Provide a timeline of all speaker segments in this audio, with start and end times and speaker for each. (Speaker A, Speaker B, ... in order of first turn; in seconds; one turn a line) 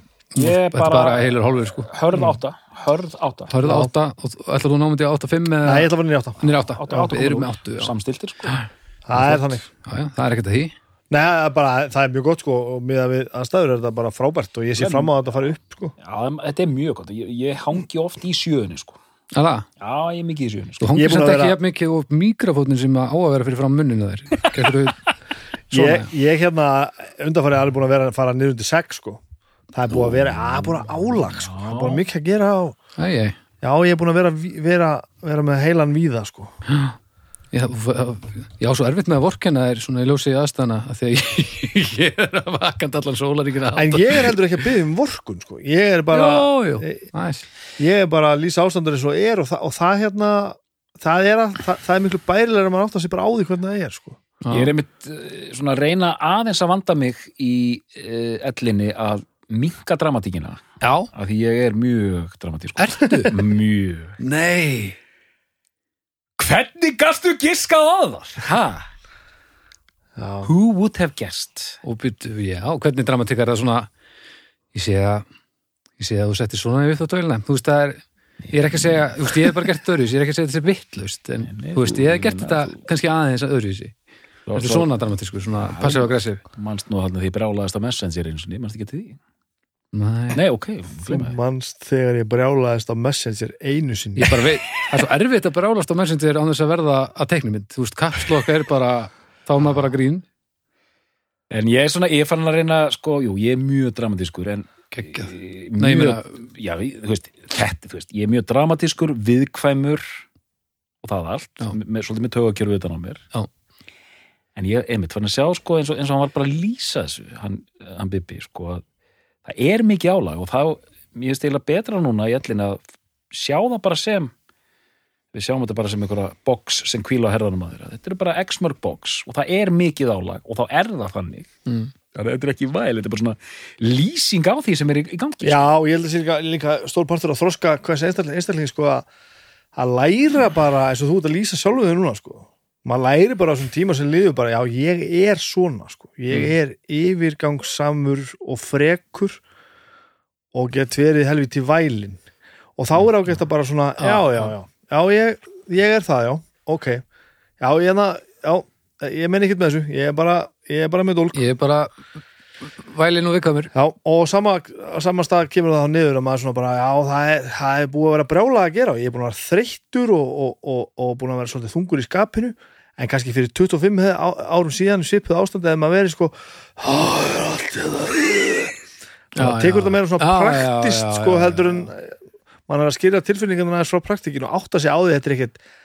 Speaker A: 0.3-1.9
Speaker B: 0.4-3.5
Speaker A: 3.5-7.9
Speaker C: 3.6-3.9
Speaker C: 5.6-6.4
Speaker B: 6.8-8.6
Speaker A: 8.5-10.7
Speaker C: 9.1-9.7
Speaker C: 11.1-15.9
Speaker B: 14.8-15.1
Speaker B: 16.0-19.0
Speaker A: 19.3-19.6
Speaker B: 19.8-21.0
Speaker A: 20.8-25.1
Speaker C: 20.9-21.6
Speaker C: 25.7-32.8
Speaker A: 25.7-26.1
Speaker B: 29.9-32.0
Speaker A: 33.0-33.4
Speaker C: 33.6-36.5
Speaker A: 36.7-36.9
Speaker A: 37.5-44.3
Speaker C: 43.7-47.0
Speaker A: 46.1-47.5
Speaker C: 47.8-54.2
Speaker A: 54.4-54.7
Speaker B: 54.5-64.2
Speaker A: 60.8-61.1
Speaker A: 62.8-63.4
Speaker A: 64.2-65.0
Speaker B: 66.4-68.8
Speaker C: 70.2-70.5
Speaker B: 70.4-71.8
Speaker A: 71.8-73.9
Speaker A: 74.7-75.2
Speaker A: 76.0-83.9
Speaker B: 78.5-79.5
Speaker B: 81.5-82.8
Speaker B: 84.5-84.9
Speaker A: 84.5-86.4
Speaker B: 85.7-89.2
Speaker A: 89.9-90.4
Speaker B: 90.3-91.4
Speaker C: 91.0-94.4
Speaker A: 94.2-100.2
Speaker B: 101.5-110.2
Speaker A: 104.9-106.3
Speaker B: 111.0-113.2
Speaker B: 114.5-118.8
Speaker B: 119.4-122.8
Speaker B: 123.3-124.3
Speaker B: 125.3-131.5
Speaker B: 132.1-135.6
Speaker C: 135.4-139.1
Speaker C: 139.7-149.4
Speaker C: 150.5-152.2
Speaker C: 152.8-157.0
Speaker A: 154.0-154.5
Speaker C: 157.6-161.4
Speaker A: 161.3-161.9
Speaker A: 162.8-163.7
Speaker C: 163.7-178.8
Speaker A: 179.3-181.8
Speaker C: 179.4-185.6